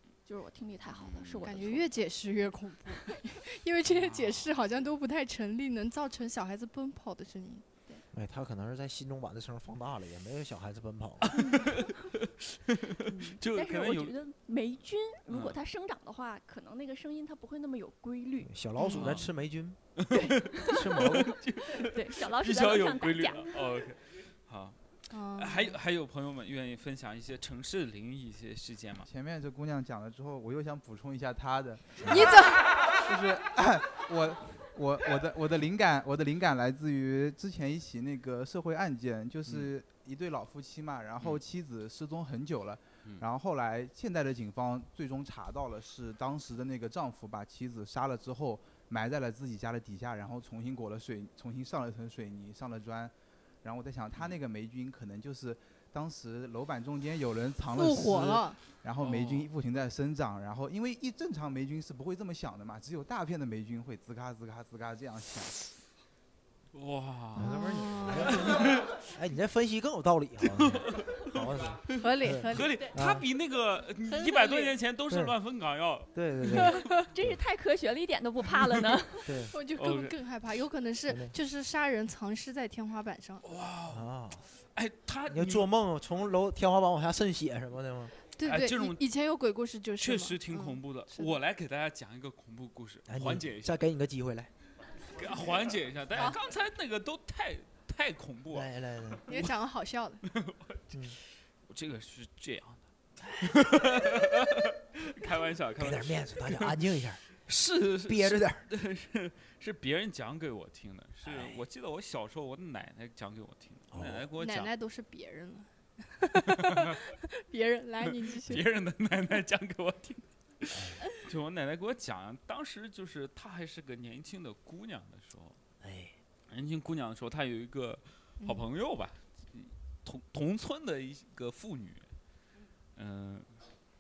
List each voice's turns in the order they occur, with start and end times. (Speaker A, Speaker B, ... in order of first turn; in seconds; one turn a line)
Speaker A: 0.2-1.9
Speaker B: 1.0-1.4
Speaker C: 1.4-7.7
Speaker B: 3.9-4.5
Speaker D: 8.1-11.4
Speaker B: 11.2-14.2
Speaker A: 13.1-18.5
Speaker B: 15.3-15.6
Speaker D: 18.4-19.8
Speaker C: 18.8-19.1
Speaker B: 18.8-19.3
Speaker B: 20.0-24.8
Speaker A: 20.1-21.1
Speaker D: 20.7-21.4
Speaker A: 21.6-23.6
Speaker C: 25.1-25.8
Speaker B: 25.4-29.1
Speaker E: 29.1-32.3
Speaker C: 32.0-32.7
Speaker E: 33.0-65.6
Speaker C: 57.7-58.6
Speaker B: 59.0-59.5
Speaker B: 66.7-67.5
Speaker D: 67.4-73.3
Speaker C: 67.4-68.5
Speaker B: 68.1-69.1
Speaker B: 70.5-76.8
Speaker C: 72.0-72.9
Speaker C: 74.4-74.7
Speaker D: 75.1-75.3
Speaker D: 76.1-76.8
Speaker C: 76.5-77.1
Speaker A: 77.1-79.3
Speaker D: 79.3-79.5
Speaker C: 79.5-83.4
Speaker B: 79.8-80.2
Speaker D: 81.1-81.3
Speaker B: 83.4-84.1
Speaker D: 83.9-84.5
Speaker B: 84.8-85.7
Speaker D: 85.3-88.1
Speaker C: 88.4-91.4
Speaker B: 88.4-89.0
Speaker B: 90.0-93.7
Speaker D: 93.1-94.5
Speaker B: 95.1-98.7
Speaker D: 98.5-99.4
Speaker C: 99.3-100.2
Speaker B: 100.3-106.8
Speaker D: 100.9-101.2
Speaker D: 105.8-107.2
Speaker B: 107.5-114.7
Speaker D: 108.0-108.7
Speaker D: 111.2-111.6
Speaker D: 113.9-114.3
Speaker C: 114.4-118.7
Speaker B: 116.3-117.0
Speaker B: 118.1-125.6
Speaker D: 120.7-121.0
Speaker D: 125.8-126.2
Speaker B: 126.5-132.1
Speaker C: 128.4-128.7
Speaker B: 133.0-133.5